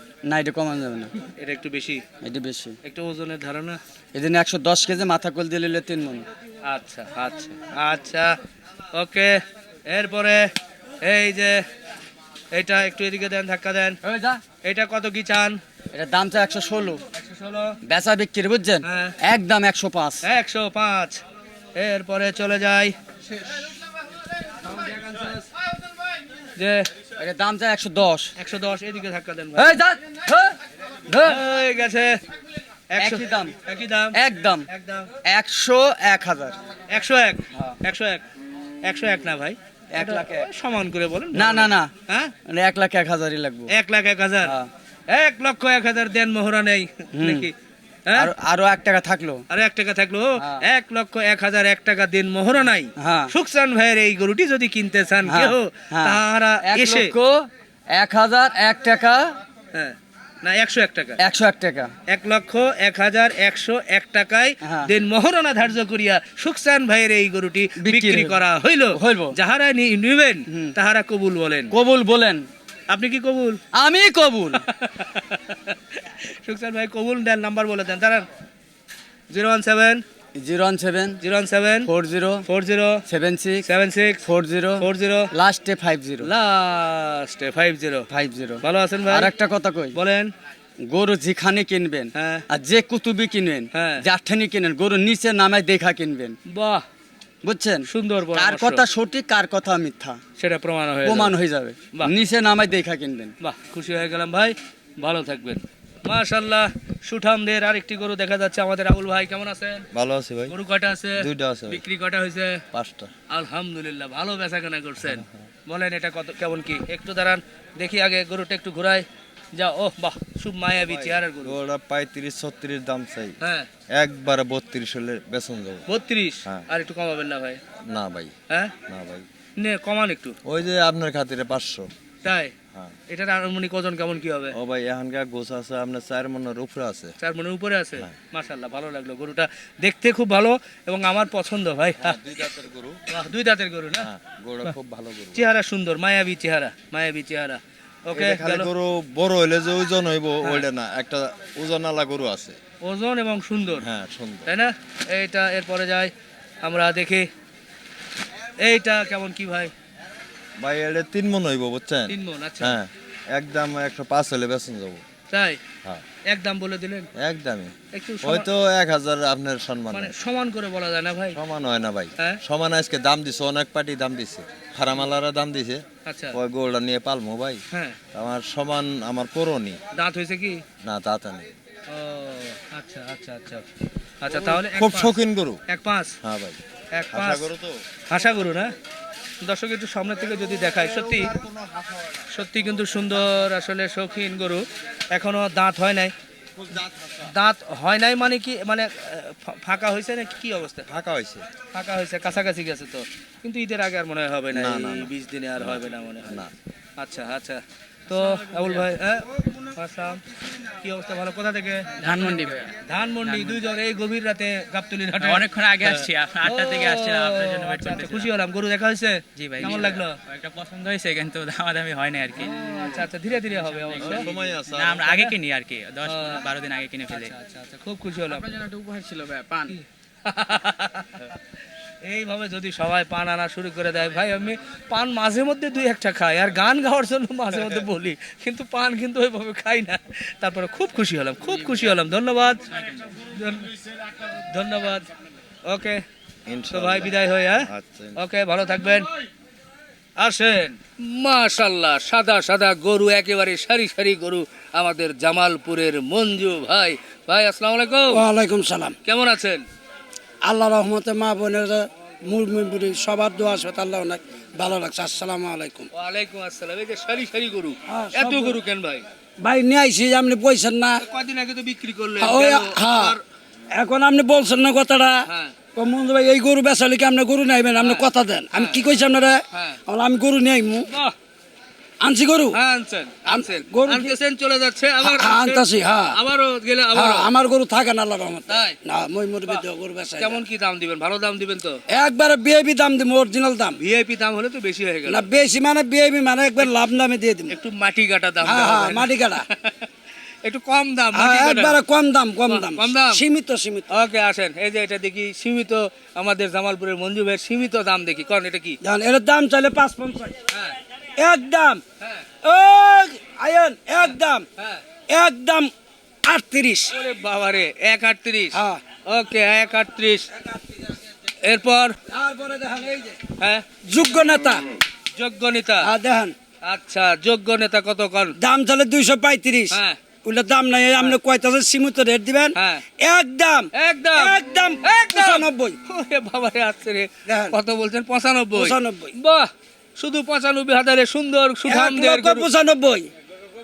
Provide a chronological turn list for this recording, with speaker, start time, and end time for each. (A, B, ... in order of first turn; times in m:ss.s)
0:00.2-0:01.1 A
0:01.4-0:02.0 B
0:02.2-0:02.8 A
0:02.8-0:03.8 B
0:04.1-0:06.2 A
0:06.6-0:08.4 B
0:08.9-0:10.5 B
0:11.0-0:11.6 B
0:12.5-0:14.0 B
0:14.0-0:14.4 A
0:14.6-0:15.6 B
0:15.9-0:17.0 A
0:17.1-0:17.8 B
0:17.8-0:20.2 A
0:18.8-0:19.2 B
0:20.2-0:21.2 B
0:21.8-0:22.9 B
0:24.7-0:25.4 B
0:26.6-0:26.9 B
0:27.2-0:28.3 A
0:28.4-0:29.8 B
0:29.6-0:30.5 A
0:31.1-0:31.4 A
0:31.2-0:32.2 B
0:33.0-0:34.2 B
0:33.0-0:33.5 A
0:34.1-0:34.6 A
0:34.7-0:35.1 B
0:35.2-0:36.6 A
0:36.9-0:38.2 B
0:38.8-0:42.3 B
0:39.9-0:40.5 A
0:41.3-0:41.9 A
0:42.4-0:43.7 A
0:43.7-0:44.5 B
0:44.4-0:44.7 A
0:45.1-0:47.5 B
0:47.1-0:47.5 A
0:48.1-0:49.4 A
0:49.5-0:57.1 B
0:50.4-0:50.6 A
0:53.0-0:53.3 A
0:55.3-0:59.4 A
0:59.7-1:01.2 B
1:01.2-1:01.9 A
1:02.1-1:11.7 B
1:07.8-1:08.4 A
1:08.9-1:09.3 A
1:10.5-1:10.7 A
1:11.7-1:12.5 A
1:12.9-1:13.6 B
1:13.7-1:14.6 A
1:14.7-1:18.2 B
1:19.3-1:20.0 B
1:20.4-1:21.2 A
1:21.2-1:21.9 B
1:21.8-1:22.4 A
1:22.5-1:23.0 B
1:23.1-1:23.6 A
1:23.6-1:24.2 B
1:24.2-1:26.3 A
1:24.8-1:25.3 B
1:26.2-1:28.1 B
1:28.1-1:30.0 A
1:28.6-1:29.3 B
1:29.9-1:30.3 B
1:30.8-1:36.4 A
1:32.1-1:32.4 B
1:33.7-1:34.0 B
1:36.5-1:36.8 B
1:37.4-1:40.2 A
1:37.9-1:38.8 B
1:40.4-1:41.3 B
1:41.0-1:43.3 A
1:43.4-1:49.8 B
1:49.9-1:50.5 C
1:50.5-1:52.6 B
1:51.2-1:51.8 C
1:52.7-1:53.1 C
1:53.3-2:01.6 B
1:55.0-1:55.4 C
2:00.8-2:03.3 C
2:03.4-2:03.7 B
2:03.9-2:05.8 C
2:05.9-2:07.6 B
2:07.9-2:08.3 C
2:08.9-2:09.2 C
2:09.6-2:10.4 B
2:10.4-2:11.9 C
2:12.2-2:12.5 B
2:13.1-2:14.5 B
2:14.5-2:17.1 C
2:17.2-2:22.2 B
2:22.0-2:23.0 C
2:23.1-2:24.1 B
2:24.0-2:25.4 C
2:25.3-2:28.7 B
2:28.1-2:32.6 C
2:32.8-2:33.8 B
2:33.8-2:34.5 C
2:34.4-2:36.1 B
2:36.6-2:37.3 B
2:38.6-2:39.7 B
2:40.6-2:45.0 C
2:42.1-2:42.8 B
2:45.3-2:45.6 B
2:46.3-2:47.1 B
2:47.2-2:50.1 C
2:47.9-2:48.5 B
2:49.9-2:51.4 B
2:51.3-2:57.6 C
2:56.0-2:56.4 B
2:57.7-2:58.0 B
2:58.1-2:59.8 C
2:59.9-3:00.6 B
3:00.8-3:01.5 C
3:01.9-3:03.6 B
3:04.2-3:05.1 B
3:04.3-3:05.6 C
3:05.7-3:06.1 B
3:06.2-3:06.6 C
3:06.9-3:07.4 B
3:07.1-3:07.8 C
3:08.1-3:08.7 B
3:09.4-3:11.3 B
3:12.3-3:16.1 B
3:16.7-3:17.2 C
3:17.2-3:20.9 B
3:20.9-3:21.4 C
3:21.7-3:26.4 B
3:24.5-3:26.5 C
3:27.0-3:30.2 B
3:30.8-3:32.1 B
3:32.0-3:33.6 D
3:32.8-3:40.2 B
3:35.2-3:38.3 D
3:39.4-3:42.9 D
3:42.4-3:44.3 B
3:43.6-3:47.3 D
3:44.0-3:45.2 C
3:45.0-3:45.3 B
3:46.0-3:46.4 B
3:47.1-3:48.5 B
3:48.3-3:49.7 D
3:49.7-3:51.1 B
3:52.0-4:02.6 B
4:02.7-4:03.1 D
4:03.3-4:03.7 B
4:04.4-4:05.0 B
4:05.7-4:06.0 B
4:06.5-4:08.2 C
4:06.7-4:09.1 B
4:10.2-4:18.2 B
4:18.1-4:18.9 E
4:19.0-4:19.6 B
4:20.4-4:25.9 E
4:25.9-4:29.0 B
4:27.9-4:28.6 E
4:29.4-4:31.0 E
4:31.0-4:33.2 B
4:32.2-4:33.2 E
4:33.7-4:40.9 E
4:35.2-4:35.5 B
4:37.8-4:38.8 B
4:39.5-4:39.8 B
4:40.9-4:41.1 B
4:42.0-4:42.6 E
4:42.5-4:47.3 B
4:43.3-4:44.1 E
4:45.0-4:46.1 E
4:46.9-4:50.4 E
4:48.5-4:48.7 B
4:50.2-4:51.8 B
4:51.9-4:53.8 E
4:53.8-4:55.2 B
4:55.1-4:57.5 E
4:57.5-4:59.8 B
4:58.4-4:59.4 E
5:00.4-5:01.8 B
5:01.1-5:03.8 E
5:02.4-5:03.2 B
5:03.9-5:08.8 B
5:08.8-5:10.3 E
5:10.5-5:10.8 B
5:11.2-5:11.8 E
5:12.4-5:14.4 E
5:14.0-5:14.8 B
5:15.1-5:15.7 E
5:16.2-5:16.9 E
5:16.9-5:20.3 B
5:18.5-5:18.8 E
5:21.4-5:22.0 B
5:22.1-5:23.2 E
5:23.4-5:23.6 B
5:23.8-5:24.6 E
5:25.2-5:25.9 B
5:25.8-5:26.3 E
5:26.6-5:28.3 B
5:28.4-5:35.8 E
5:29.7-5:30.0 B
5:32.5-5:32.8 B
5:33.7-5:42.5 B
5:37.3-5:37.5 E
5:38.5-5:39.1 E
5:41.7-5:43.1 E